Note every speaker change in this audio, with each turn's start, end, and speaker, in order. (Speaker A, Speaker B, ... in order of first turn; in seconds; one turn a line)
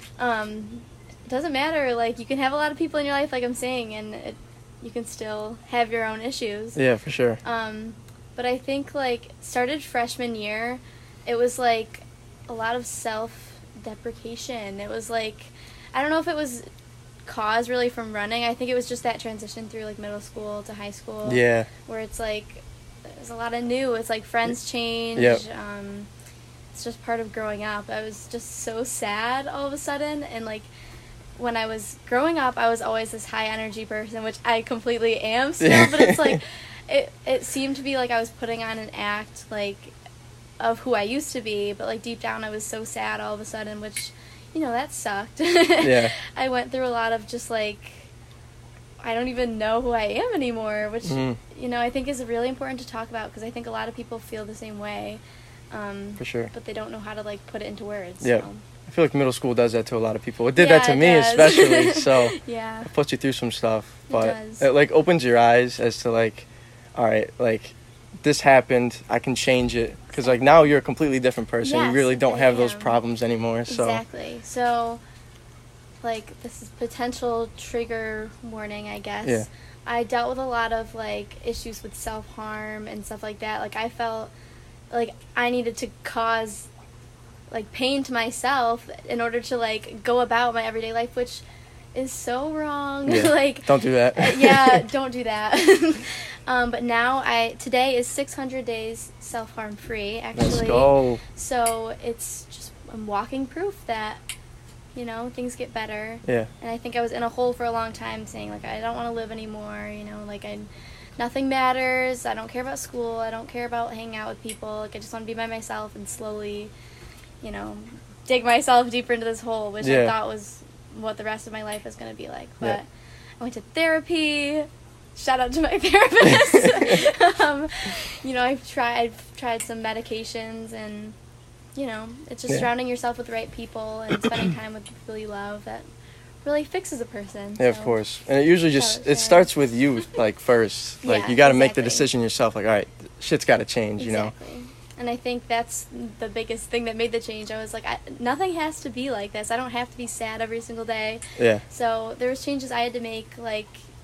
Speaker A: 0.2-6.8
Speaker B: 6.8-7.4
Speaker A: 7.4-16.7
Speaker A: 17.3-26.1
Speaker B: 21.2-21.7
Speaker B: 25.2-25.4
Speaker A: 26.7-30.7
Speaker A: 31.4-39.9
Speaker B: 35.6-36.4
Speaker A: 40.6-48.1
Speaker B: 45.8-46.1
Speaker A: 49.0-58.6
Speaker B: 51.0-51.4
Speaker B: 56.2-56.5
Speaker B: 58.2-74.0
Speaker A: 60.5-62.9
Speaker A: 64.1-64.7
Speaker A: 70.1-70.4
Speaker A: 71.6-73.0
Speaker A: 73.7-75.0
Speaker A: 76.0-84.3
Speaker A: 84.9-86.7
Speaker A: 87.5-91.4
Speaker A: 92.0-104.2
Speaker B: 93.1-94.8
Speaker B: 100.4-101.2
Speaker A: 105.0-116.7
Speaker B: 106.2-106.5
Speaker A: 117.4-122.9
Speaker B: 119.8-120.1
Speaker A: 123.4-131.2
Speaker B: 126.3-126.9
Speaker A: 131.8-135.9
Speaker A: 136.4-138.0
Speaker B: 137.6-144.3
Speaker A: 138.7-139.5
Speaker A: 141.0-142.1
Speaker A: 144.0-153.8
Speaker B: 151.4-151.6